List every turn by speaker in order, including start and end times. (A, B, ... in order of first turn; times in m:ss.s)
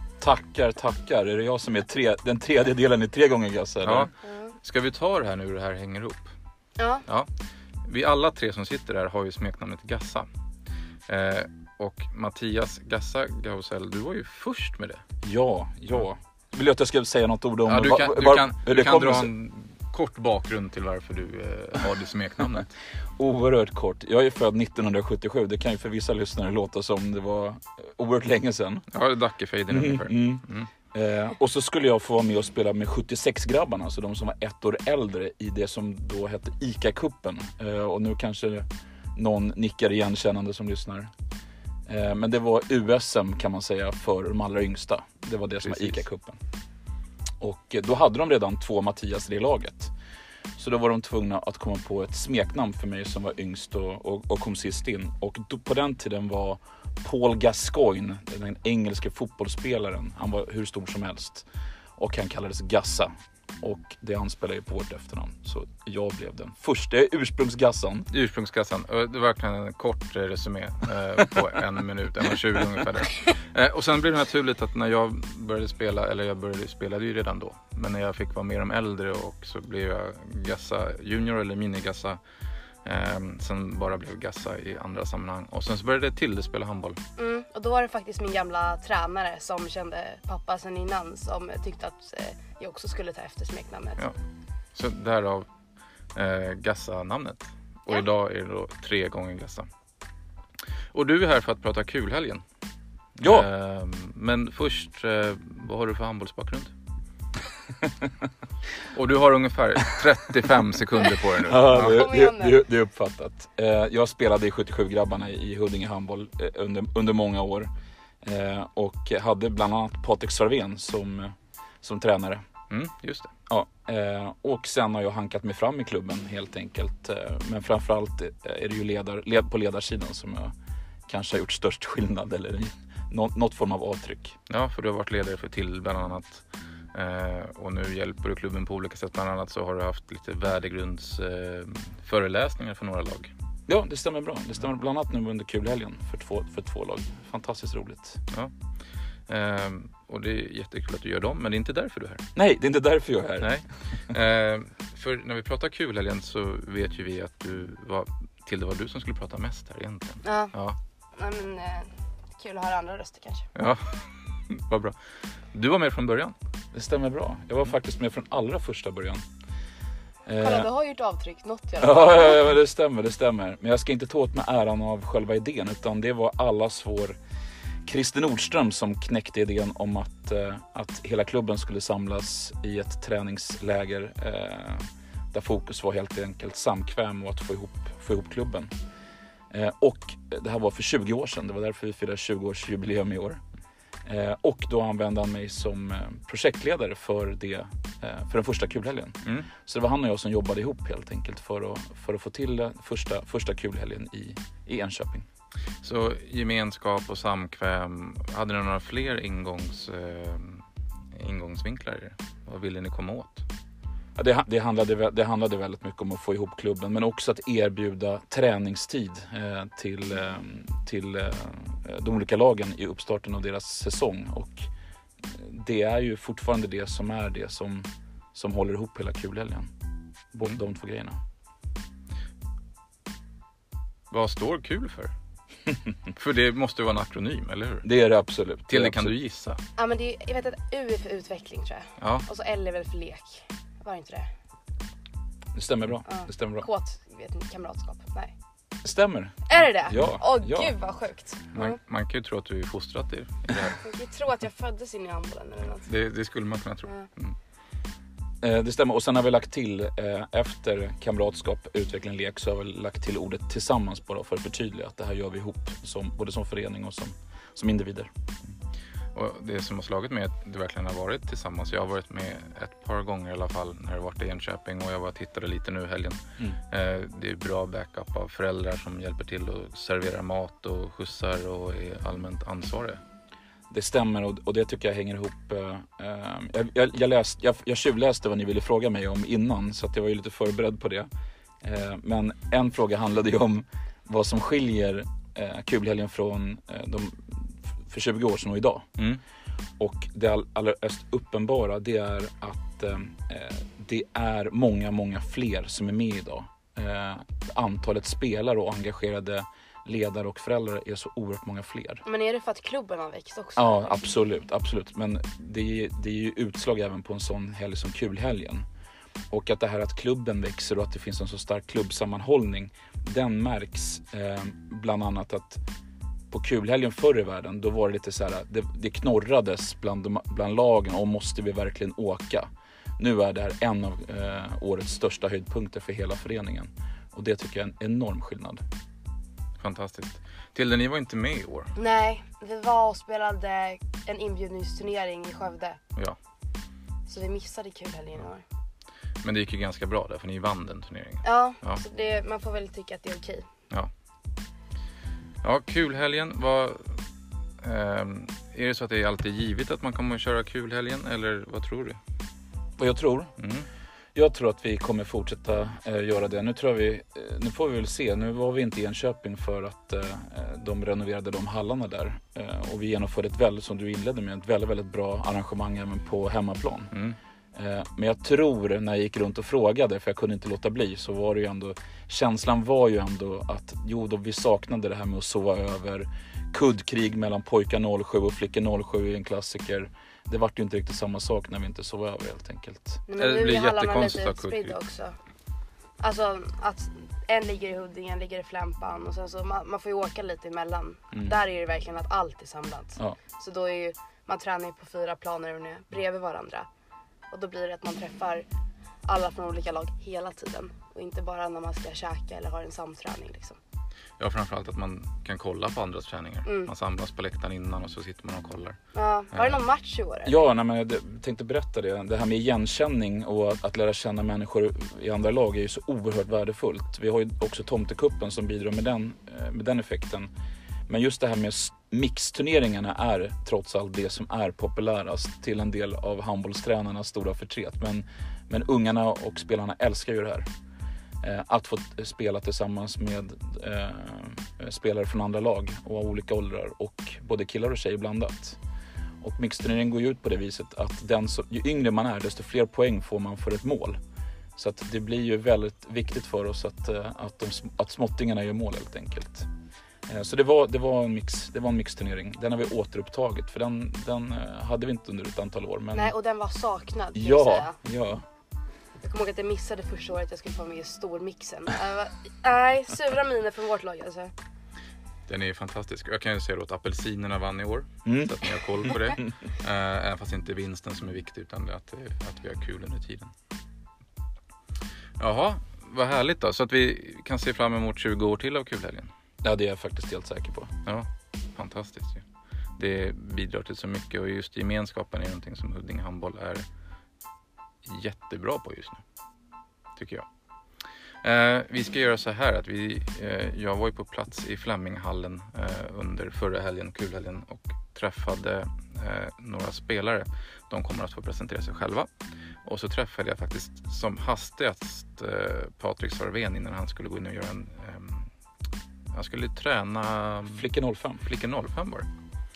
0:00.2-0:04.1 A
0:03.8-0:04.1 B
0:04.2-0:04.5 C
0:04.6-0:06.3 B
0:06.8-0:07.0 C
0:07.8-0:10.3 B
0:11.1-0:15.0 B
0:15.2-0:19.3 A
0:17.6-0:22.7 B
0:23.2-0:28.8 A
0:28.9-0:30.7 B
0:29.7-0:41.1 A
0:41.9-0:46.4 A
0:45.6-0:46.0 B
0:47.4-0:49.9 A
0:50.6-1:01.4 A
1:02.0-1:08.1 A
1:08.1-1:22.2 B
1:22.8-1:27.0 B
1:27.2-1:34.0 C
1:34.7-1:35.5 B
1:36.1-1:39.7 B
1:40.9-1:42.4 B
1:43.2-1:43.5 A
1:43.2-1:46.7 B
1:48.9-1:52.0 B
1:51.4-1:57.7 A
1:51.7-1:52.6 C
1:58.2-2:02.4 A
2:02.7-2:03.3 B
2:03.5-2:10.5 A
2:11.1-2:14.4 A
2:14.5-2:23.3 B
2:23.7-2:28.2 A
2:29.3-2:32.2 B
2:32.3-2:33.5 A
2:33.4-2:40.8 B
2:40.2-2:40.5 C
2:41.2-2:43.5 C
2:43.6-2:45.0 B
2:45.5-2:46.4 B
2:46.7-2:49.2 A
2:50.2-2:50.7 A
2:50.4-2:52.4 C
2:51.8-2:57.2 A
2:57.8-3:08.7 A
3:09.5-3:13.4 A
3:14.0-3:25.2 A
3:19.2-3:19.5 B
3:25.8-3:33.4 B
3:34.2-3:44.7 A
3:45.2-3:49.7 A
3:50.3-3:51.2 A
3:54.1-3:55.1 B
3:56.1-3:57.9 B
3:57.8-3:59.1 A
3:58.7-3:59.6 B
3:59.8-4:04.3 C
4:02.0-4:02.2 B
4:05.5-4:06.7 A
4:06.0-4:08.3 C
4:08.8-4:10.7 A
4:09.5-4:11.7 C
4:11.5-4:13.8 B
4:13.8-4:15.9 C
4:15.8-4:17.3 B
4:18.4-4:28.1 A
4:29.1-4:43.0 B
4:43.7-4:51.1 A
4:51.6-4:58.9 A
4:59.8-5:12.0 A
5:12.0-5:14.0 C
5:13.6-5:18.6 A
5:19.3-5:25.6 A
5:26.3-5:38.6 A
5:39.6-5:41.7 B
5:41.7-5:45.8 C
5:47.1-5:48.4 C
5:49.2-5:51.8 B
5:51.2-5:53.5 C
5:55.4-5:57.0 B
5:57.6-6:02.0 B
6:02.8-6:03.3 A
6:03.4-6:03.7 B
6:04.1-6:16.9 A
6:16.9-6:17.2 B
6:17.5-6:33.0 A
6:33.1-6:35.1 C
6:33.1-6:34.8 B
6:36.0-6:46.7 C
6:47.3-6:48.4 C
6:49.0-6:53.6 C
6:54.2-6:58.8 B
6:56.4-6:56.7 C
6:58.9-7:00.4 C
6:59.3-6:59.6 B
7:00.2-7:10.3 A
7:10.9-7:20.5 A
7:21.2-7:28.6 A
7:29.2-7:34.0 A
7:34.6-7:39.5 A
7:40.1-7:46.1 A
7:45.9-7:47.7 C
7:47.2-7:48.2 A
7:49.0-7:54.3 C
7:55.3-8:03.3 B
7:58.0-7:58.3 A
8:05.2-8:09.1 B
8:09.4-8:10.7 A
8:10.8-8:12.2 B
8:12.8-8:16.6 B
8:17.8-8:19.0 B
8:20.0-8:20.2 B
8:21.2-8:32.1 B
8:32.6-8:38.3 B
8:39.1-8:40.6 B
8:40.6-8:41.2 A
8:41.2-8:42.1 B